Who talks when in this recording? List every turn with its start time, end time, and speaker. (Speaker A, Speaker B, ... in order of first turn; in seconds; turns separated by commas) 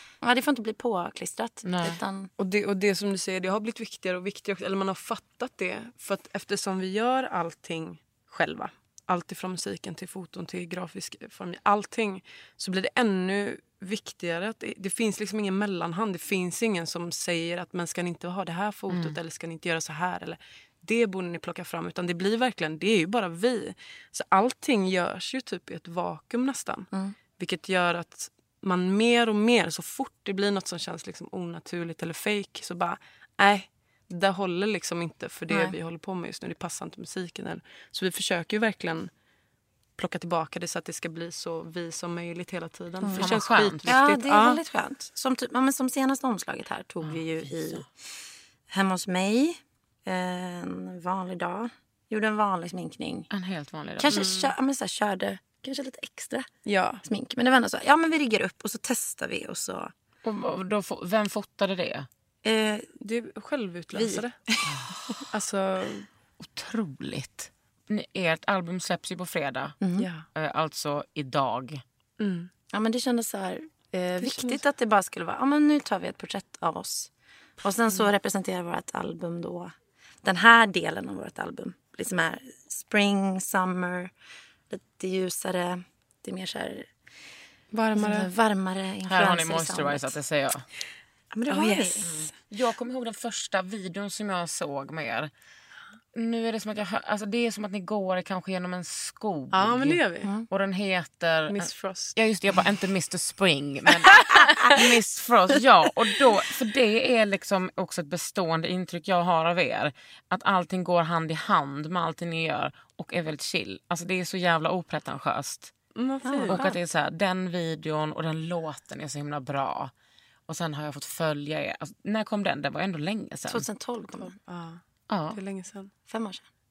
Speaker A: 0.2-2.3, Speaker B: 1.6-2.0, Speaker C: 2.4-39.1, Speaker B: 18.9-19.1, Speaker A: 35.5-35.8, Speaker C: 40.0-44.6, Speaker A: 43.0-43.3, Speaker B: 43.1-43.9, Speaker A: 43.9-47.9, Speaker B: 47.0-47.9, Speaker A: 48.7-53.3, Speaker B: 53.3-54.3, Speaker A: 54.0-56.5, Speaker C: 54.1-54.5, Speaker C: 56.6-57.0, Speaker A: 57.0-59.9, Speaker B: 60.2-62.1, Speaker A: 62.4-62.9, Speaker C: 63.0-64.3, Speaker A: 63.9-65.2, Speaker B: 64.6-64.9, Speaker C: 65.3-66.1, Speaker B: 66.4-69.8, Speaker A: 69.8-70.1, Speaker C: 70.0-70.2, Speaker B: 70.3-71.8, Speaker C: 72.2-72.5, Speaker A: 72.7-77.1, Speaker C: 74.0-74.6, Speaker A: 77.6-84.1, Speaker A: 84.7-86.9, Speaker C: 87.7-88.3, Speaker A: 88.0-90.2, Speaker B: 89.0-90.7, Speaker A: 91.3-92.3, Speaker C: 91.5-92.0, Speaker B: 92.0-95.3, Speaker B: 96.1-115.7, Speaker C: 99.5-100.3, Speaker C: 101.5-102.2, Speaker C: 115.9-116.6, Speaker A: 116.2-116.8, Speaker B: 116.5-119.9, Speaker B: 120.5-123.7, Speaker A: 123.5-124.3, Speaker C: 124.2-125.9, Speaker B: 125.1-125.4, Speaker A: 126.1-126.4